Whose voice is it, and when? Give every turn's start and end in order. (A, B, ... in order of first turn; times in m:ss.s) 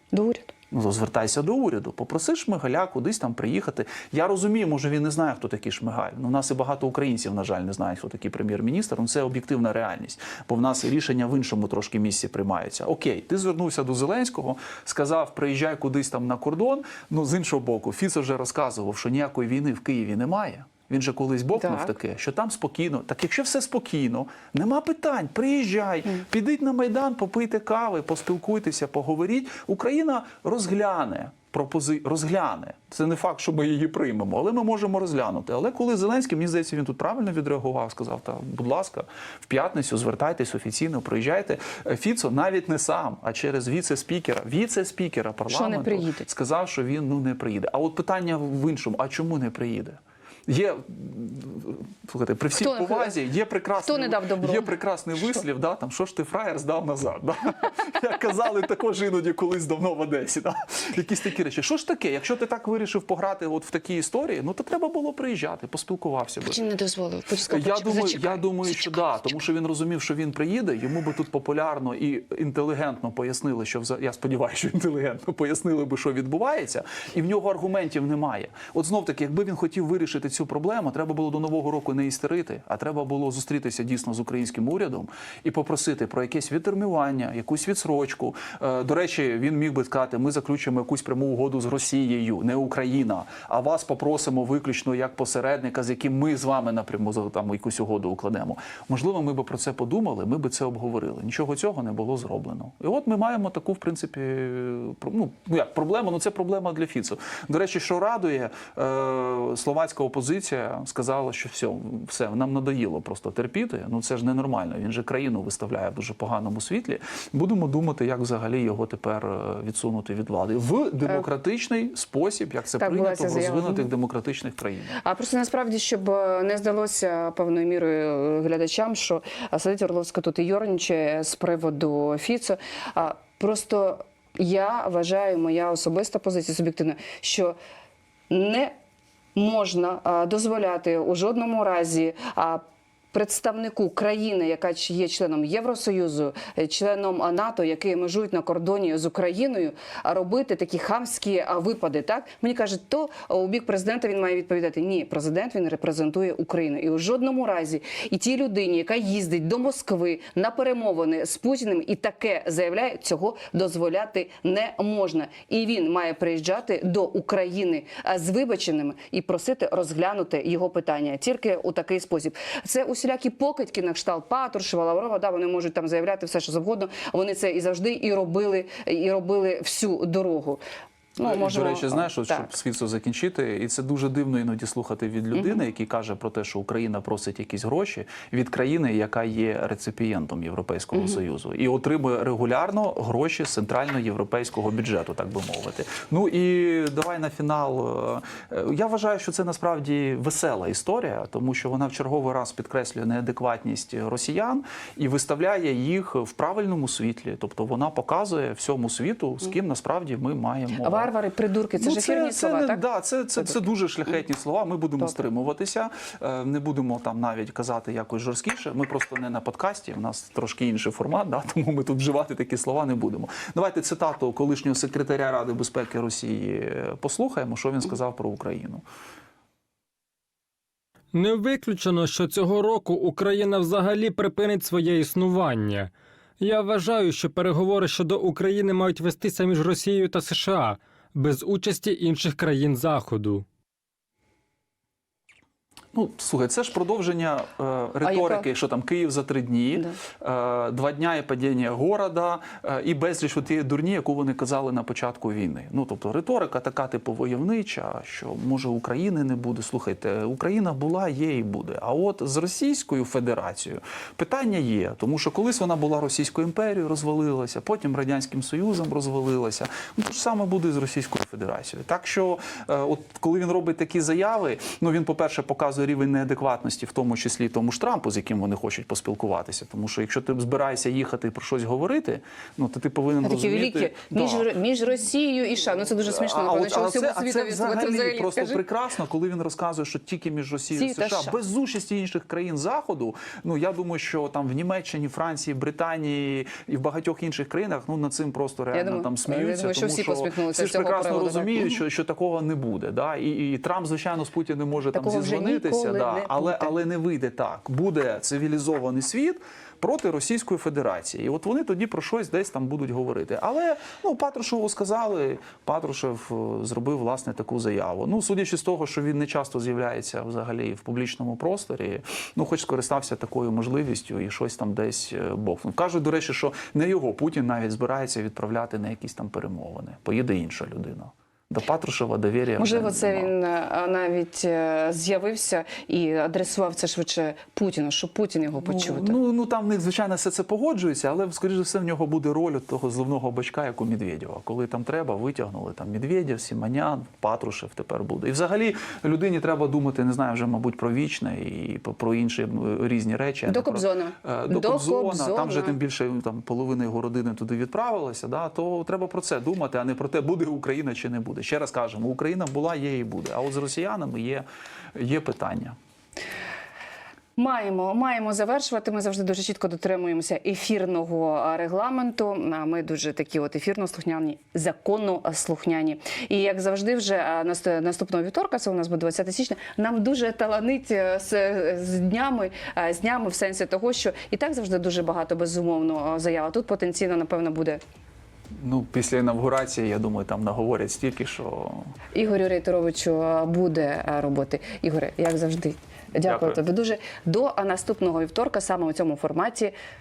0:00.1-0:00.5 A
0:00.7-1:06.6 B
0:21.6-0:21.9 A
0:45.5-0:46.3 A
0:52.6-0:53.2 A
0:53.8-0:55.4 A
1:06.5-1:09.0 A
1:07.4-2:05.0 B
2:02.8-2:03.9 A
2:05.0-2:17.6 A
2:18.3-2:18.7 A
2:19.3-2:22.6 A
2:23.1-3:00.6 A
3:01.2-3:02.5 A
3:01.2-3:31.1 B
3:05.3-3:05.6 A
3:30.8-3:32.8 A
3:31.8-3:48.8 B
3:51.1-4:03.4 C
4:05.9-4:44.5 B
4:08.0-4:08.5 A
4:43.2-4:48.6 A
4:46.0-5:33.3 B
4:50.7-4:51.4 A
4:58.7-5:01.8 A
5:04.9-5:06.7 A
5:32.6-5:39.2 A
5:38.6-6:05.8 B
5:53.5-5:55.8 A
6:07.4-6:27.8 A
6:28.6-6:31.9 B
6:32.1-6:39.7 A
6:36.2-6:36.6 B